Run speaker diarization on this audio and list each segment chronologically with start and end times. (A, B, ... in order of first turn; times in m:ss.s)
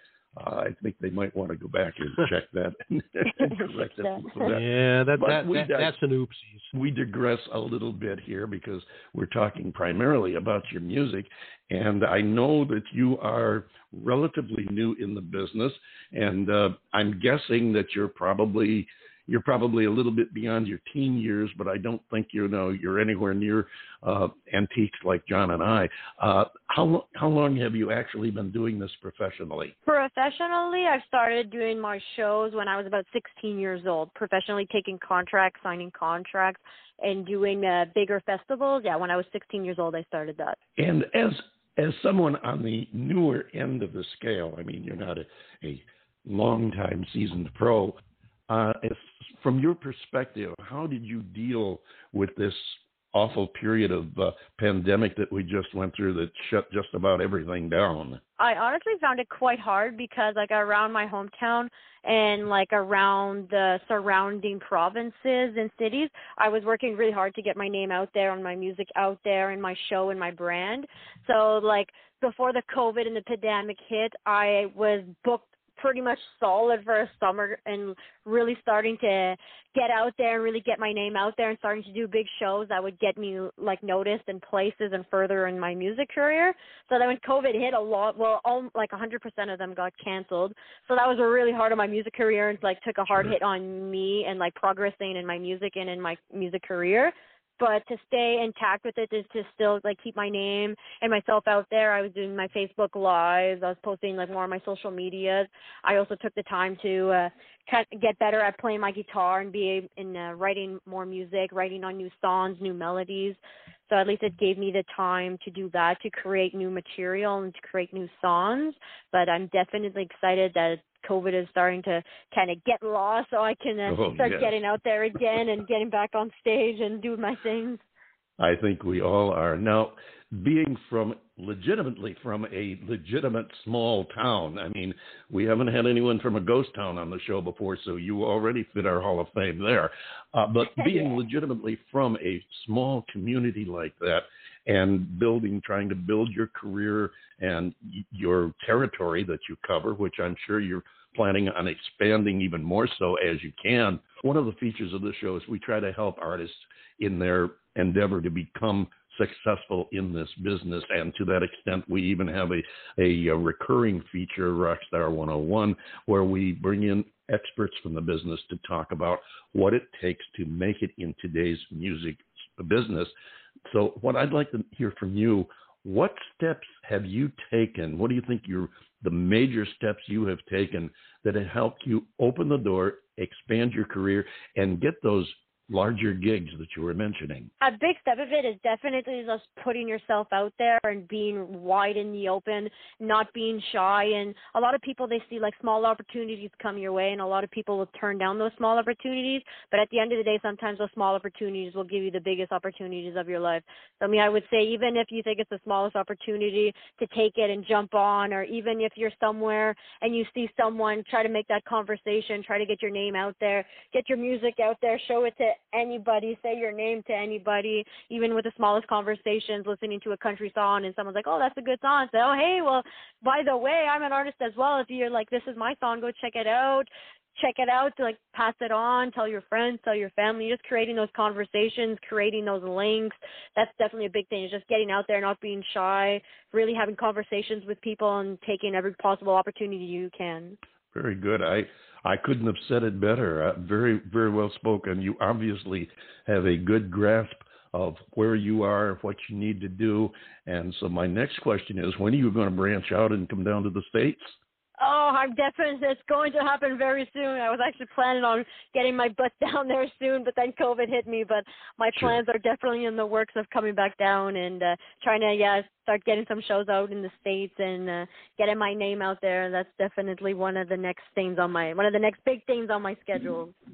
0:00.4-0:05.9 A
0:04.5-0:06.7 B
0:06.7-0:29.7 A
0:29.9-0:40.6 C
0:40.8-0:48.0 A
0:48.5-0:58.2 A
0:58.4-2:07.8 C
2:03.9-2:04.6 A
2:08.4-2:53.1 A
2:20.8-2:21.1 C
2:53.7-3:07.5 A
3:07.6-4:00.6 C
4:00.9-4:14.4 A
4:14.8-4:33.5 C